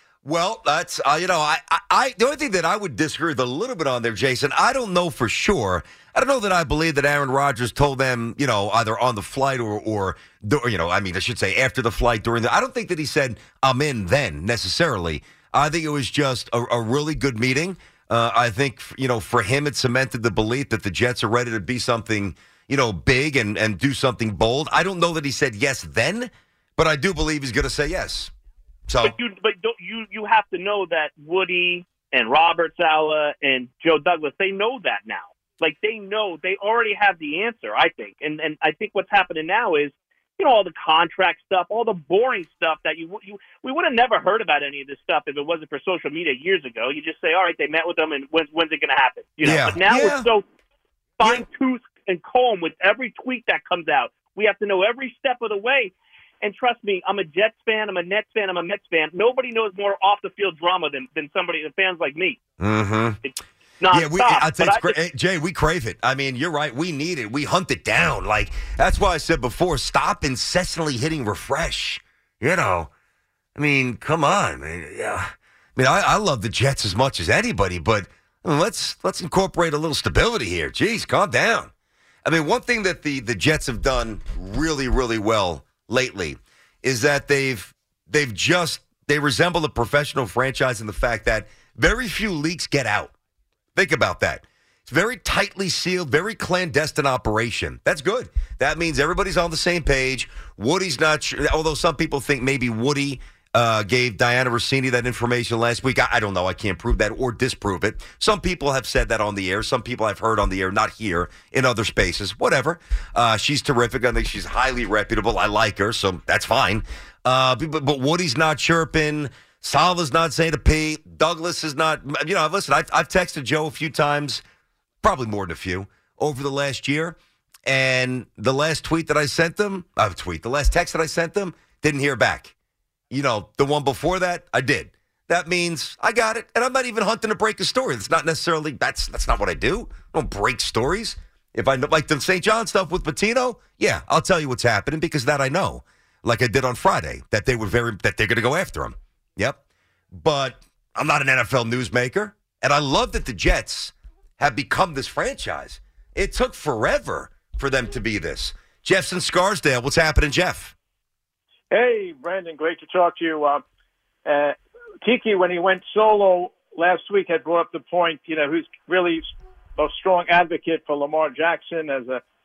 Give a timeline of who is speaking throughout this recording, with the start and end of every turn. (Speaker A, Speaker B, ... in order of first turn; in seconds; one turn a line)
Speaker A: 0.2-28.3
Speaker A: 28.9-29.1
Speaker B: 29.0-50.4
Speaker A: 49.4-50.3
Speaker B: 51.2-62.4
Speaker A: 62.6-63.2
Speaker B: 63.2-65.0
Speaker A: 63.9-72.9
Speaker A: 73.5-81.7
Speaker A: 82.2-93.2
Speaker A: 93.8-124.4
Speaker A: 125.0-132.6
Speaker A: 133.1-149.6
Speaker A: 150.1-160.7
Speaker C: 161.7-163.6
Speaker C: 164.2-172.2